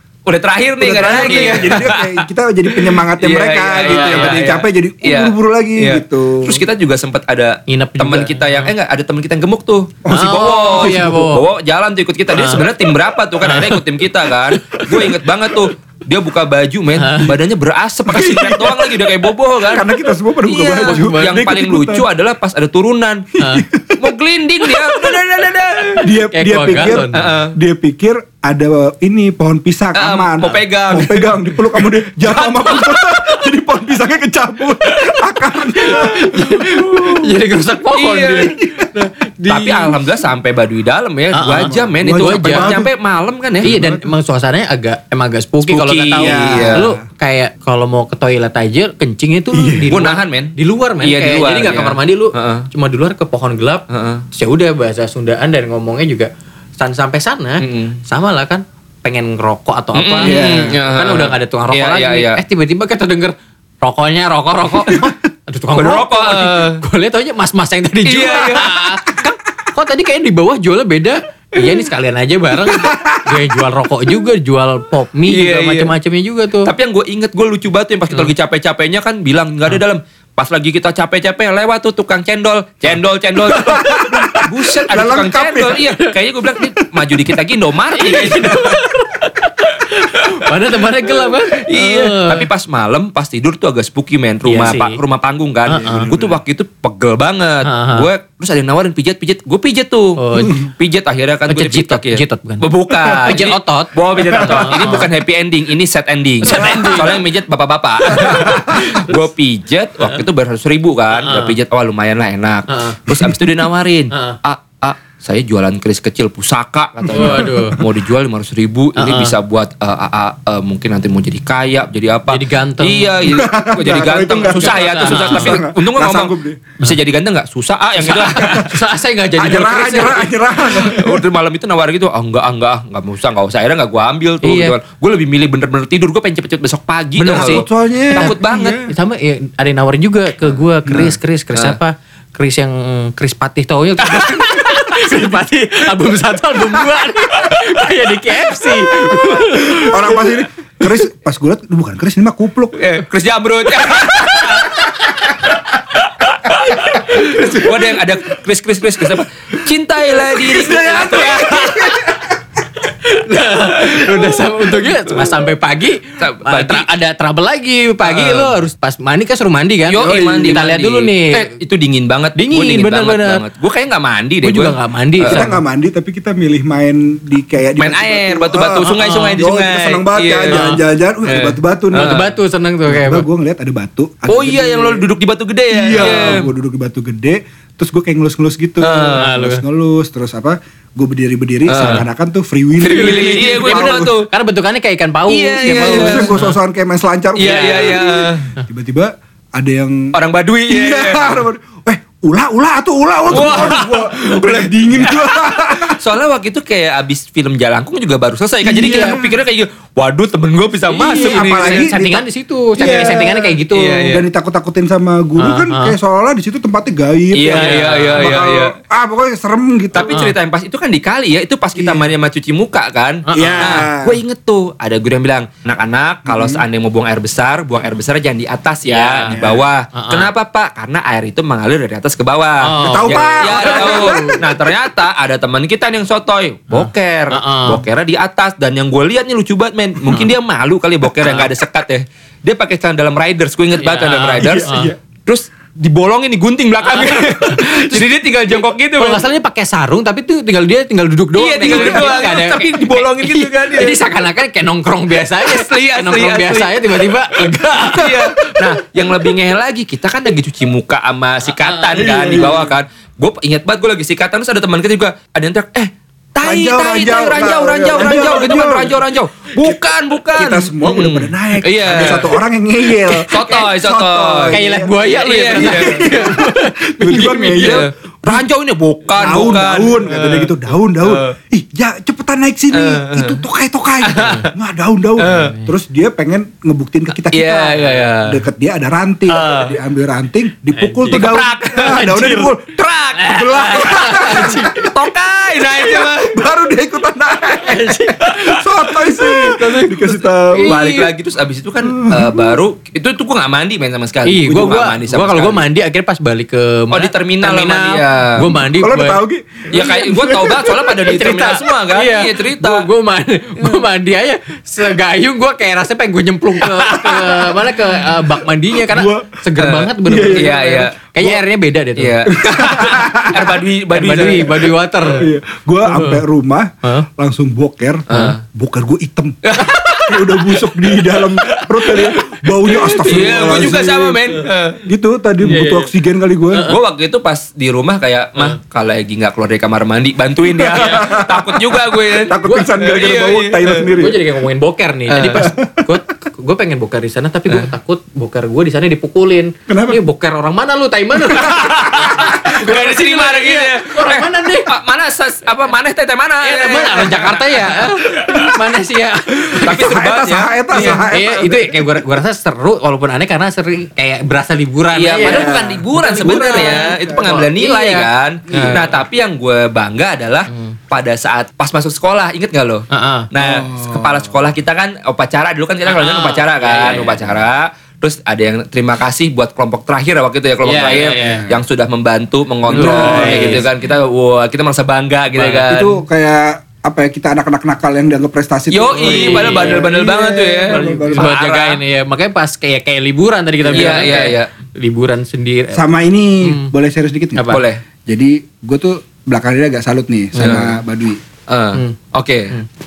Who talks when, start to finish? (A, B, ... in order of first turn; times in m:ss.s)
0:00.2-0:23.4 A
0:00.8-0:06.6 B
0:01.0-0:01.8 C
0:03.8-0:04.4 C
0:07.7-0:08.7 C
0:10.0-0:11.3 B
0:10.1-0:11.4 C
0:12.3-0:12.7 C
0:13.4-0:13.8 C
0:14.8-0:15.0 C
0:17.0-0:17.3 C
0:18.1-0:22.1 B
0:20.8-0:21.3 C
0:23.4-0:23.6 C
0:23.4-0:24.0 B
0:24.0-0:26.1 A
0:26.0-0:37.0 B
0:26.3-0:27.3 C
0:27.1-0:27.5 A
0:29.9-0:31.4 A
0:32.3-0:33.1 A
0:35.7-0:39.9 C
0:37.9-0:38.6 A
0:39.5-0:43.8 A
0:41.3-0:42.7 C
0:42.0-0:42.9 B
0:43.6-0:44.1 B
0:43.6-1:16.7 C
0:45.7-0:46.9 A
0:46.2-0:47.0 B
0:49.5-0:50.0 B
0:49.9-0:52.7 A
0:53.9-0:54.2 A
0:57.6-0:58.0 A
0:59.9-1:02.4 A
1:00.2-1:00.8 B
1:05.8-1:06.8 A
1:08.0-1:08.9 A
1:11.6-1:11.8 A
1:12.8-1:13.2 B
1:15.3-1:15.9 A
1:16.6-1:28.6 A
1:23.5-1:25.8 B
1:27.9-1:32.5 C
1:28.3-1:28.8 B
1:31.5-2:08.7 A
1:34.4-1:35.0 C
1:35.7-1:36.1 C
1:35.7-1:36.4 B
1:37.6-1:38.1 C
1:40.2-1:40.6 C
1:41.5-1:42.7 C
1:43.2-1:45.1 C
1:46.4-1:47.2 C
1:48.1-1:49.1 C
1:48.2-1:48.8 B
1:51.1-1:51.5 C
1:52.7-1:53.0 C
1:54.1-1:54.4 C
1:57.1-1:57.8 C
1:59.0-1:59.3 C
2:02.3-2:03.3 C
2:03.2-2:06.6 B
2:04.4-2:05.6 C
2:08.0-2:10.3 C
2:09.4-2:11.2 B
2:10.7-2:18.8 A
2:14.4-2:14.8 C
2:17.2-2:17.6 C
2:17.2-2:18.9 B
2:18.2-2:30.3 C
2:24.0-2:24.9 A
2:29.1-2:32.8 B
2:32.8-2:34.9 A
2:34.0-2:35.6 C
2:36.1-2:41.7 A
2:36.5-2:37.2 C
2:37.1-2:38.0 B
2:40.2-2:42.2 B
2:41.2-2:42.2 C
2:42.8-2:51.5 C
2:46.2-2:46.9 A
2:48.0-2:48.6 A
2:49.9-2:55.5 A
2:50.1-2:50.6 B
2:52.4-2:53.4 C
2:54.4-2:55.6 C
2:55.3-3:02.3 B
2:57.8-3:02.3 A
2:59.0-2:59.4 C
3:00.5-3:00.8 C
3:02.0-3:03.2 C
3:02.9-3:05.0 B
3:04.3-3:06.5 A
3:05.7-3:14.1 B
3:06.0-3:06.4 C
3:08.8-3:09.3 A
3:09.2-3:09.6 C
3:11.7-3:12.0 A
3:11.7-3:12.0 C
3:12.8-3:16.5 C
3:12.8-3:14.3 A
3:15.3-3:16.4 A
3:15.6-3:20.1 B
3:17.4-3:18.5 A
3:17.4-3:18.1 C
3:20.1-3:21.4 A
3:20.7-3:26.0 B
3:23.3-3:31.9 A
3:28.6-3:29.3 B
3:28.8-3:29.2 C
3:30.9-3:34.1 C
3:31.0-3:32.2 B
3:32.8-3:40.2 B
3:33.7-3:34.2 A
3:35.4-3:36.0 C
3:37.3-3:38.7 A
3:37.5-3:38.4 C
3:39.9-4:04.7 A
3:40.0-3:40.3 C
3:41.8-3:42.1 B
3:43.3-3:43.9 C
3:43.3-3:44.2 B
3:46.3-3:46.6 B
3:48.8-3:49.4 C
3:49.3-3:49.6 B
3:49.9-3:50.3 C
3:52.6-3:54.4 C
3:52.8-3:54.4 B
3:56.7-3:57.8 C
4:01.2-4:01.5 C
4:03.8-4:04.9 C
4:04.4-4:05.0 B
4:05.2-4:09.2 A
4:06.8-4:08.0 C
4:09.0-4:18.6 C
4:11.4-4:14.0 A
4:11.6-4:12.2 B
4:15.4-4:17.2 A
4:17.8-4:32.4 A
4:21.5-4:22.4 C
4:22.0-4:22.7 B
4:26.4-4:29.0 B
4:29.6-4:38.4 B
4:33.2-4:36.2 A
4:34.5-4:37.9 C
4:37.2-4:41.4 A
4:39.1-4:54.9 B
4:42.7-4:43.4 A
4:44.0-4:44.5 A
4:44.2-4:44.5 C
4:45.2-4:45.5 A
4:45.2-4:45.7 C
4:47.3-4:48.4 A
4:49.3-4:49.8 A
4:50.8-4:51.4 C
4:51.1-4:56.4 A
4:53.5-4:54.9 C
4:55.7-5:00.8 B
4:57.6-5:01.1 C
5:00.6-5:05.6 A
5:01.8-5:02.6 B
5:04.2-5:09.2 C
5:06.9-5:08.5 A
5:08.7-5:11.0 B
5:09.7-5:12.9 A
5:10.8-5:22.6 C
5:16.8-5:17.5 B
5:18.7-5:19.3 B
5:19.6-5:21.0 A
5:20.1-5:20.6 B
5:22.0-5:24.7 A
5:22.4-5:23.6 B
5:23.9-5:25.3 C
5:25.2-5:34.3 B
5:25.8-5:26.2 C
5:28.1-5:28.4 A
5:28.1-5:28.4 C
5:29.4-5:34.8 A
5:32.8-5:33.5 C
5:34.8-5:36.7 B
5:35.4-5:35.9 C
5:36.5-5:36.8 C
5:36.6-5:43.9 A
5:40.5-5:44.2 B
5:42.4-5:42.7 C
5:43.9-5:54.7 C
5:45.1-5:45.5 A
5:45.4-5:45.9 B
5:49.7-5:50.0 B
5:51.5-5:52.2 B
5:51.8-5:58.0 A
5:56.4-5:59.8 C
5:59.4-6:02.1 B
5:59.6-6:01.0 A
6:00.7-6:08.9 C
6:05.0-6:25.9 A
6:05.2-6:07.2 B
6:08.5-6:08.8 B
6:12.9-6:13.3 C
6:13.4-6:14.3 B
6:15.9-6:17.3 C
6:20.6-6:21.5 C
6:22.7-6:23.7 B
6:22.7-6:23.6 C
6:25.4-6:25.7 C
6:25.7-6:31.3 B
6:28.7-6:31.8 A
6:29.0-6:29.9 C
6:30.7-6:35.8 C
6:33.7-6:34.1 B
6:33.7-6:34.5 A
6:35.7-6:41.2 B
6:36.4-6:36.7 C
6:37.4-6:37.6 C
6:37.5-6:37.8 A
6:40.4-6:40.7 C
6:40.4-6:40.7 A
6:41.5-6:42.5 A